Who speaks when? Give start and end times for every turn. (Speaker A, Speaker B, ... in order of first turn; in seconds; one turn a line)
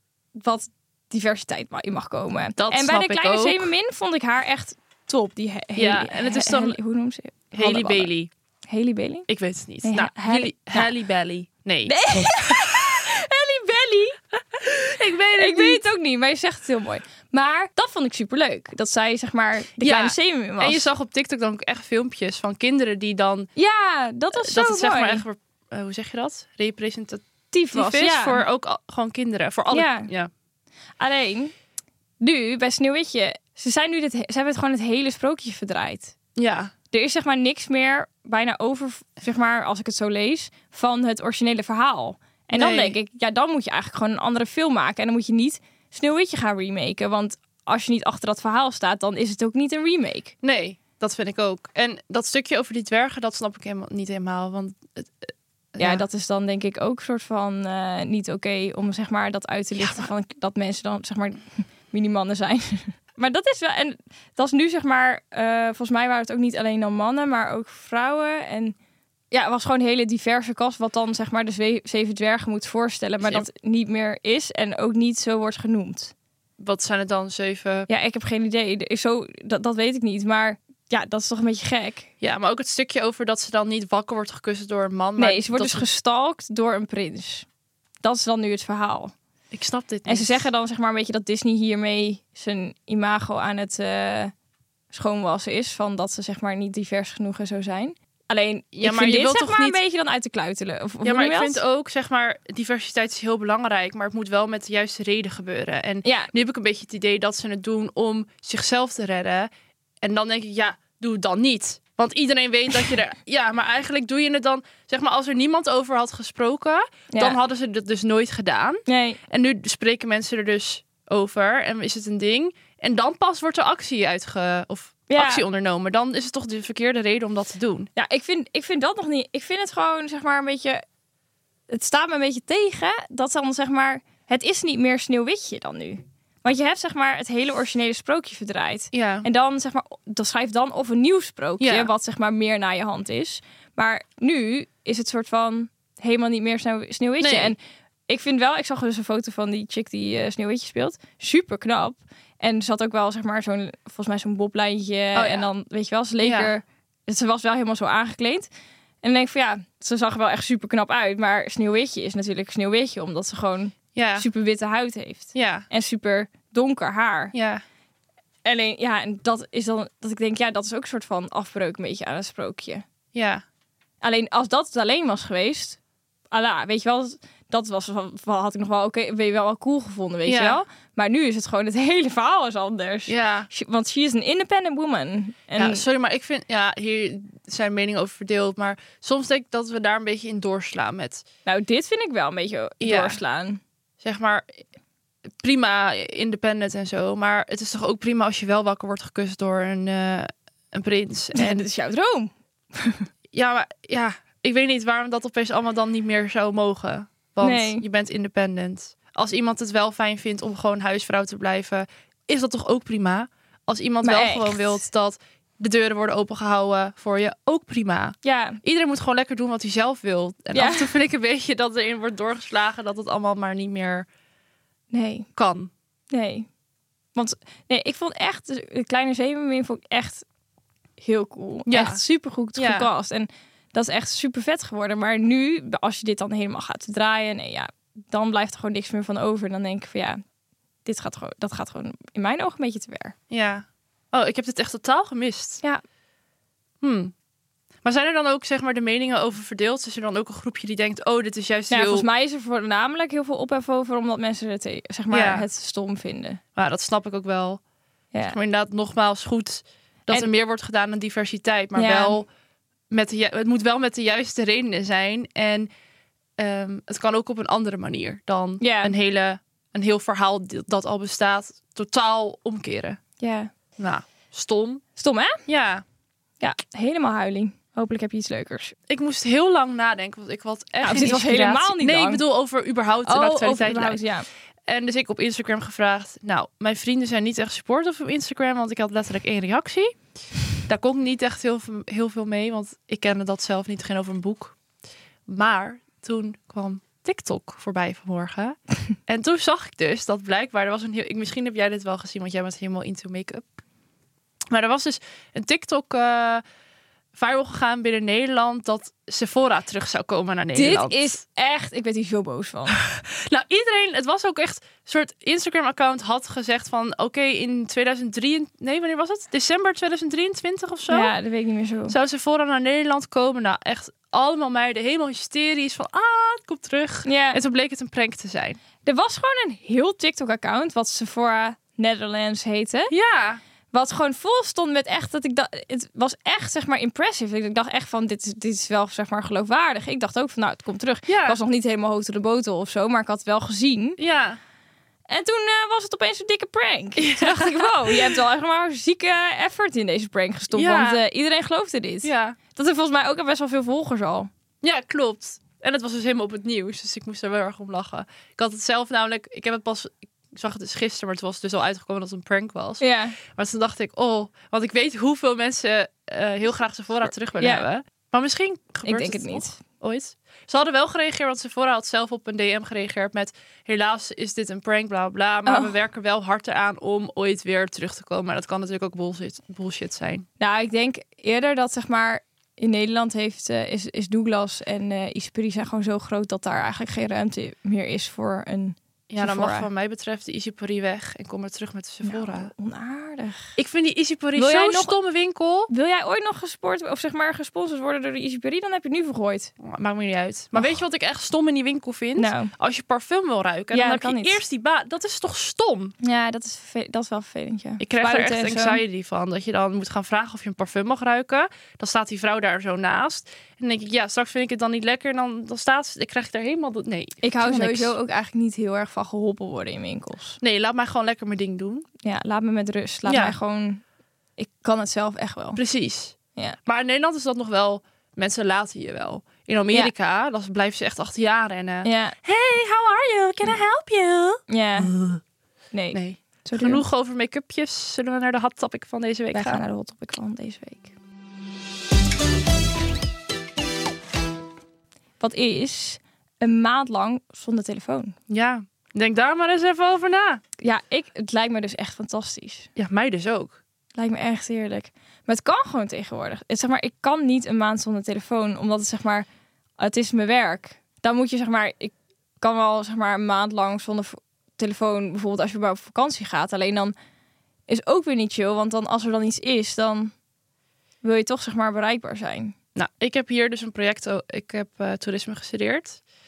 Speaker A: 0.3-8.1
Speaker B: 2.6-3.7
Speaker B: 5.8-6.8
Speaker B: 7.5-8.3
Speaker A: 8.7-9.3
Speaker B: 9.3-13.0
Speaker A: 9.8-10.9
Speaker A: 11.9-14.2
Speaker B: 14.6-15.8
Speaker A: 15.4-20.9
Speaker B: 19.8-23.5
Speaker A: 23.6-25.2
Speaker B: 24.3-30.3
Speaker A: 27.5-28.4
Speaker A: 29.7-30.1
Speaker A: 31.0-31.5
Speaker A: 32.2-36.1
Speaker B: 36.4-36.7
Speaker A: 36.9-50.3
Speaker B: 42.5-43.0
Speaker B: 50.4-56.0
Speaker A: 55.8-68.8
Speaker B: 59.8-60.1
Speaker A: 69.3-76.1
Speaker B: 76.6-77.9
Speaker A: 77.9-82.1
Speaker B: 82.2-85.9
Speaker A: 85.2-87.5
Speaker A: 88.0-89.1
Speaker B: 89.5-90.5
Speaker A: 90.1-94.3
Speaker A: 94.9-101.6
Speaker B: 98.8-99.8
Speaker B: 101.0-109.5
Speaker A: 106.0-106.3
Speaker B: 110.0-127.9
Speaker A: 117.1-117.4
Speaker A: 118.9-119.2
Speaker A: 125.1-125.4
Speaker A: 128.0-130.8
Speaker A: 131.7-158.5
Speaker B: 138.9-139.3
Speaker B: 141.6-141.9
Speaker B: 147.2-147.5
Speaker B: 155.2-155.5
Speaker B: 156.2-156.5
Speaker A: 159.0-167.3
Speaker B: 163.9-164.3
Speaker B: 165.3-165.7
Speaker B: 167.3-167.6
Speaker A: 168.4-172.8
Speaker B: 173.1-173.4
Speaker A: 174.0-175.8
Speaker A: 176.3-185.8
Speaker B: 180.2-180.6
Speaker B: 183.1-183.5
Speaker B: 185.6-191.2
Speaker A: 191.5-193.6
Speaker B: 192.8-193.2
Speaker B: 194.0-194.6
Speaker B: 195.4-201.6
Speaker A: 201.3-203.1
Speaker B: 203.3-224.1
Speaker A: 207.4-207.8
Speaker A: 214.0-214.8
Speaker A: 218.2-218.6
Speaker A: 220.5-220.9
Speaker A: 224.9-225.3
Speaker B: 225.4-225.7
Speaker A: 226.1-226.5
Speaker A: 227.2-230.2
Speaker A: 231.0-240.2
Speaker B: 231.7-232.0
Speaker B: 232.6-232.9
Speaker A: 240.8-243.2
Speaker B: 243.3-245.6
Speaker B: 246.8-247.1
Speaker B: 247.8-252.1
Speaker A: 251.7-256.4
Speaker B: 255.1-255.5
Speaker B: 256.6-257.6
Speaker B: 258.2-262.3
Speaker A: 261.8-262.2
Speaker B: 262.9-265.7
Speaker B: 266.4-273.0
Speaker A: 268.6-268.9
Speaker A: 273.2-273.5
Speaker B: 273.8-274.8
Speaker A: 275.0-275.4
Speaker B: 275.5-275.8
Speaker A: 276.4-278.8
Speaker B: 278.9-284.0
Speaker A: 280.8-282.2
Speaker A: 283.1-284.3
Speaker B: 284.7-290.0
Speaker B: 290.6-294.6
Speaker B: 295.3-303.5
Speaker B: 304.5-306.4
Speaker B: 307.1-311.2
Speaker A: 310.6-312.8
Speaker B: 312.7-321.1
Speaker A: 320.9-321.9
Speaker B: 321.9-328.6
Speaker A: 327.1-327.4
Speaker A: 328.8-332.9
Speaker B: 332.9-333.4
Speaker A: 333.7-344.0
Speaker B: 341.1-341.4
Speaker B: 344.0-344.4
Speaker A: 345.1-354.3
Speaker B: 347.0-348.2
Speaker B: 350.5-351.0
Speaker B: 352.0-352.4
Speaker B: 354.6-380.3
Speaker A: 362.8-363.2
Speaker A: 367.4-367.6
Speaker A: 368.9-369.6
Speaker A: 375.5-375.7
Speaker A: 380.4-389.7
Speaker B: 389.1-392.5
Speaker A: 392.0-393.6
Speaker B: 393.6-395.7
Speaker A: 394.4-395.0
Speaker A: 395.7-399.5
Speaker B: 399.6-405.9
Speaker A: 400.5-400.8
Speaker A: 402.2-402.5
Speaker A: 403.7-404.4
Speaker A: 406.0-408.8
Speaker B: 407.8-417.9
Speaker A: 417.2-420.4
Speaker B: 420.4-421.9
Speaker A: 422.0-423.8
Speaker B: 423.1-423.4
Speaker A: 424.4-425.6
Speaker B: 425.6-435.2
Speaker A: 431.9-432.2
Speaker A: 434.5-434.9
Speaker A: 435.7-436.8
Speaker B: 435.9-439.6
Speaker A: 439.3-440.9
Speaker A: 445.2-448.2
Speaker B: 448.3-450.4
Speaker A: 450.6-452.7
Speaker B: 452.8-453.6
Speaker A: 453.9-459.3
Speaker A: 459.8-466.9
Speaker A: 467.7-470.1
Speaker A: 471.0-472.6
Speaker B: 472.8-476.0